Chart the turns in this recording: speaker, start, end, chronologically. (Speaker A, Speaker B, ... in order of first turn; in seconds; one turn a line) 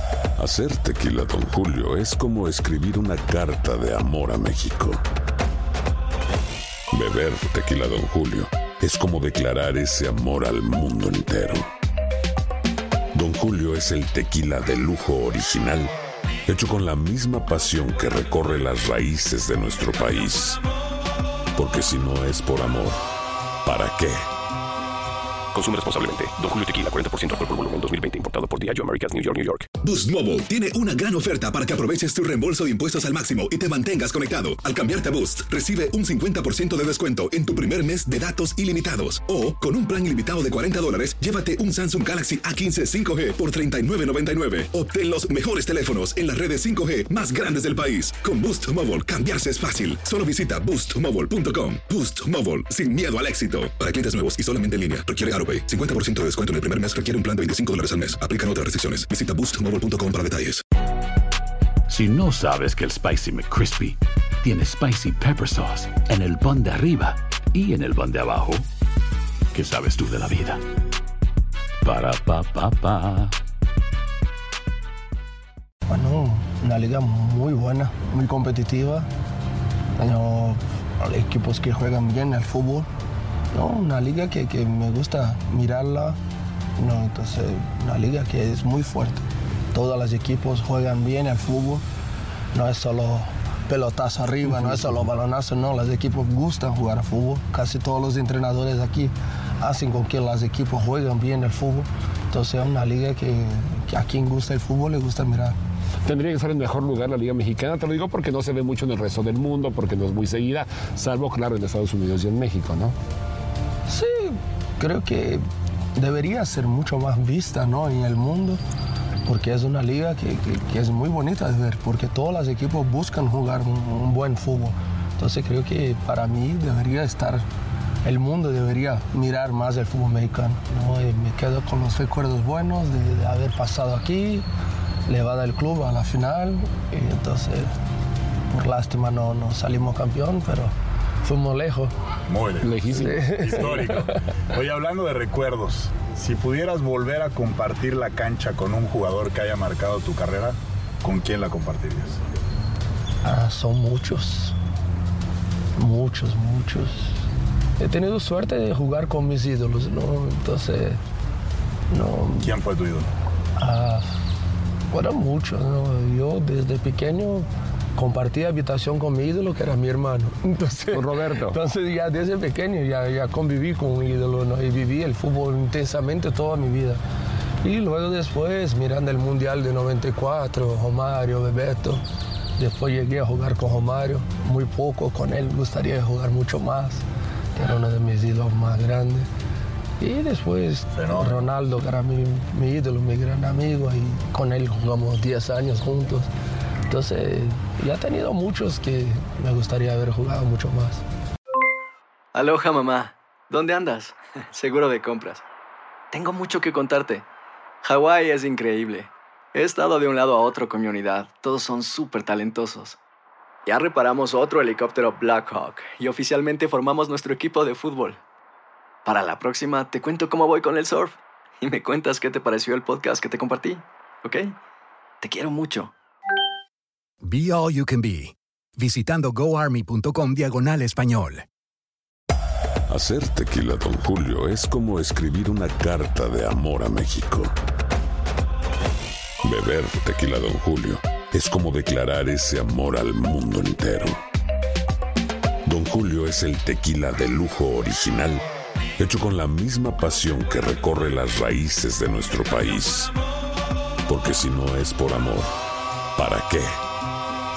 Speaker A: 0.4-5.0
Speaker A: 6.9-11.7
Speaker A: 13.1-15.9
Speaker A: 16.5-20.6
Speaker A: 21.5-23.0
Speaker A: 23.6-24.2
Speaker B: 25.5-29.6
Speaker C: 29.8-60.6
Speaker D: 61.9-68.6
Speaker D: 69.5-70.6
Speaker D: 71.8-73.3
Speaker E: 75.9-79.1
Speaker E: 80.0-82.9
Speaker E: 83.5-86.2
Speaker E: 86.8-91.8
Speaker E: 92.5-105.5
Speaker F: 106.1-112.9
Speaker E: 113.9-118.6
Speaker E: 119.2-127.5
Speaker E: 128.0-134.4
Speaker E: 135.1-137.7
Speaker E: 138.5-141.9
Speaker G: 142.3-144.0
Speaker F: 142.6-143.8
Speaker E: 143.0-144.2
Speaker G: 144.5-152.2
Speaker E: 153.2-154.6
Speaker E: 155.8-157.2
Speaker E: 157.8-161.0
Speaker E: 161.9-162.5
Speaker G: 162.4-163.1
Speaker E: 163.6-164.1
Speaker E: 164.9-177.0
Speaker F: 170.9-171.6
Speaker E: 177.6-182.0
Speaker E: 182.6-189.3
Speaker E: 190.0-196.3
Speaker G: 190.9-191.5
Speaker E: 196.8-201.0
Speaker H: 202.3-205.4
Speaker H: 206.1-207.2
Speaker H: 207.8-213.0
Speaker H: 213.7-218.2
Speaker H: 219.0-224.6
Speaker H: 225.2-225.9
Speaker I: 227.2-231.4
Speaker A: 232.9-237.5
Speaker A: 239.4-244.2
Speaker A: 245.6-248.4
Speaker A: 249.0-253.1
Speaker A: 254.1-255.5
Speaker A: 256.1-256.7